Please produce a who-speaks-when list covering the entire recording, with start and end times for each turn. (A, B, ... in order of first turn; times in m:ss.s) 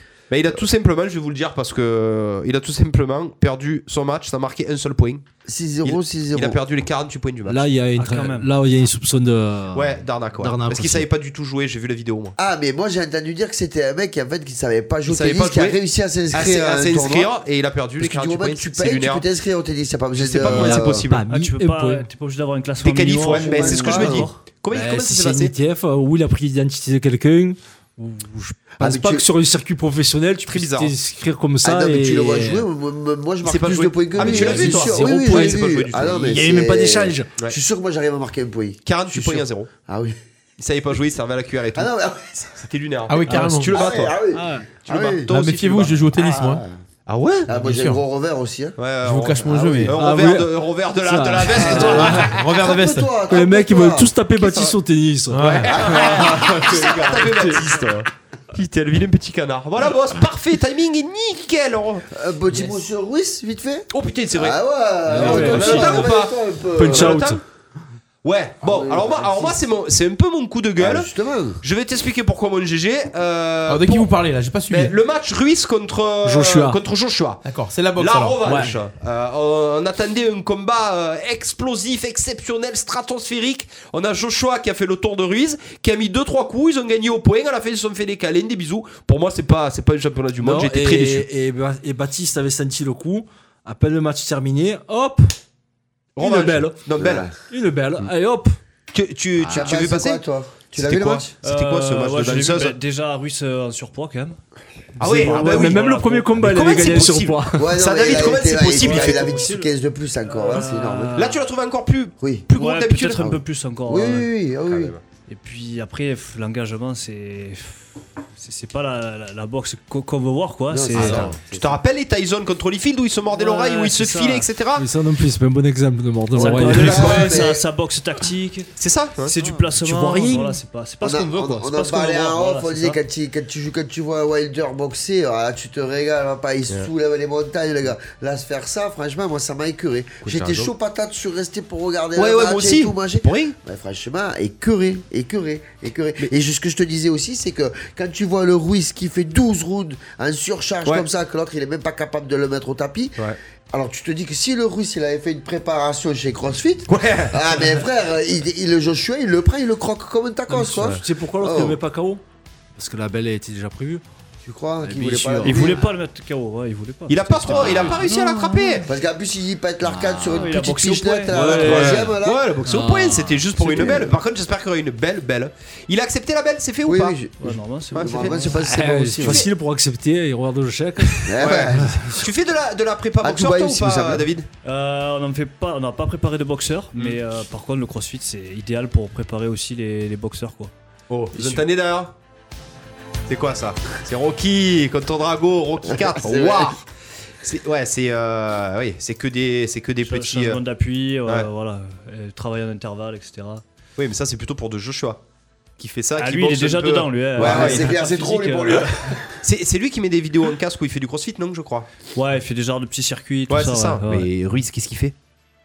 0:00.3-0:05.2 A
0:05.5-0:06.6 B
0:05.8-0:07.7 A
0:07.5-0:11.1 C
0:08.0-0:08.5 D
0:09.7-0:12.4 A
0:12.4-0:17.3 B
0:15.1-0:15.8 A
0:16.3-0:19.2 A
0:18.0-0:21.1 B
0:20.2-0:21.2 A
0:20.4-0:22.1 C
0:21.3-0:24.4 D
0:22.8-0:25.5 A
0:23.3-0:24.3 B
0:24.7-0:32.6 C
0:28.8-0:29.3 B
0:30.5-0:30.9 A
0:31.6-0:40.2 B
0:33.4-0:36.4 A
0:34.2-0:37.3 C
0:38.9-0:39.7 A
0:40.6-0:41.9 A
0:41.8-0:42.6 B
0:42.6-0:44.2 A
0:43.1-0:43.7 E
0:43.7-0:45.3 B
0:44.3-0:44.7 C
0:44.9-0:46.0 A
0:45.3-0:46.6 E
0:46.2-0:46.8 B
0:47.1-0:47.5 A
0:47.5-0:48.8 B
0:47.5-0:48.0 E
0:48.8-0:52.3 A
0:49.0-0:50.0 E
0:49.4-0:50.0 B
0:50.0-0:52.3 C
0:51.6-0:54.2 B
0:51.7-0:53.1 E
0:53.3-0:57.6 C
0:54.4-0:54.7 A
0:55.3-0:55.8 E
0:55.4-1:02.1 A
0:55.7-0:56.6 B
1:02.1-1:07.2 B
1:03.9-1:07.4 A
1:05.1-1:06.1 C
1:06.7-1:07.4 C
1:08.2-1:11.1 A
1:08.6-1:09.6 B
1:10.8-1:11.6 B
1:11.6-1:14.1 A
1:13.7-1:14.9 E
1:14.7-1:17.4 A
1:16.2-1:16.8 C
1:17.4-1:18.8 E
1:18.0-1:31.3 A
1:30.4-1:35.3 C
1:36.2-1:36.8 C
1:36.2-1:37.3 A
1:37.0-1:37.3 B
1:37.5-1:38.6 C
1:38.9-1:40.2 A
1:39.5-1:41.3 B
1:40.7-1:42.8 A
1:41.4-1:44.4 D
1:45.0-1:45.8 A
1:45.0-1:45.6 B
1:45.1-1:47.7 C
1:45.1-1:46.4 D
1:46.4-1:49.4 A
1:47.6-1:51.3 B
1:48.8-1:49.7 D
1:50.3-1:51.4 D
1:51.2-1:53.4 A
1:52.2-1:52.5 B
1:52.5-1:54.3 D
1:53.2-1:54.9 B
1:54.7-1:55.0 A
1:55.3-2:01.2 D
2:00.7-2:01.8 B
2:01.0-2:04.9 A
2:01.0-2:01.4 C
2:03.3-2:04.5 D
2:04.8-2:07.1 C
2:06.4-2:08.7 D
2:06.6-2:07.1 A
2:06.7-2:07.6 B
2:08.8-2:09.4 A
2:09.2-2:13.0 D
2:09.5-2:10.6 C
2:11.0-2:41.8 B
2:20.2-2:20.7 A
2:22.2-2:23.5 A
2:36.9-2:37.6 A
2:40.5-2:42.2 C
2:42.8-2:44.0 C
2:44.4-2:45.9 B
2:44.8-2:45.8 C
2:45.4-2:48.7 D
2:47.1-2:48.9 A
2:47.6-2:48.0 C
2:48.9-2:52.4 B
2:49.8-2:50.6 C
2:50.3-2:52.0 D
2:51.3-2:52.1 C
2:51.4-2:57.2 A
2:52.6-2:54.1 C
2:53.7-2:54.1 B
2:56.8-2:59.4 B
2:57.4-2:58.5 D
2:57.9-2:58.4 A
2:58.4-3:02.2 C
2:59.2-2:59.5 A
3:01.2-3:02.0 B
3:01.4-3:04.5 A
3:03.2-3:04.3 B
3:04.6-3:10.7 D
3:11.1-3:12.1 A
3:13.3-3:16.8 A
3:15.9-3:16.8 B
3:17.4-3:20.6 A
3:20.0-3:23.6 D
3:24.0-3:25.2 A
3:25.8-3:27.9 A
3:26.2-3:29.0 D
3:27.4-3:29.2 B
3:29.4-3:31.9 A
3:32.2-3:34.3 D
3:33.5-3:35.2 A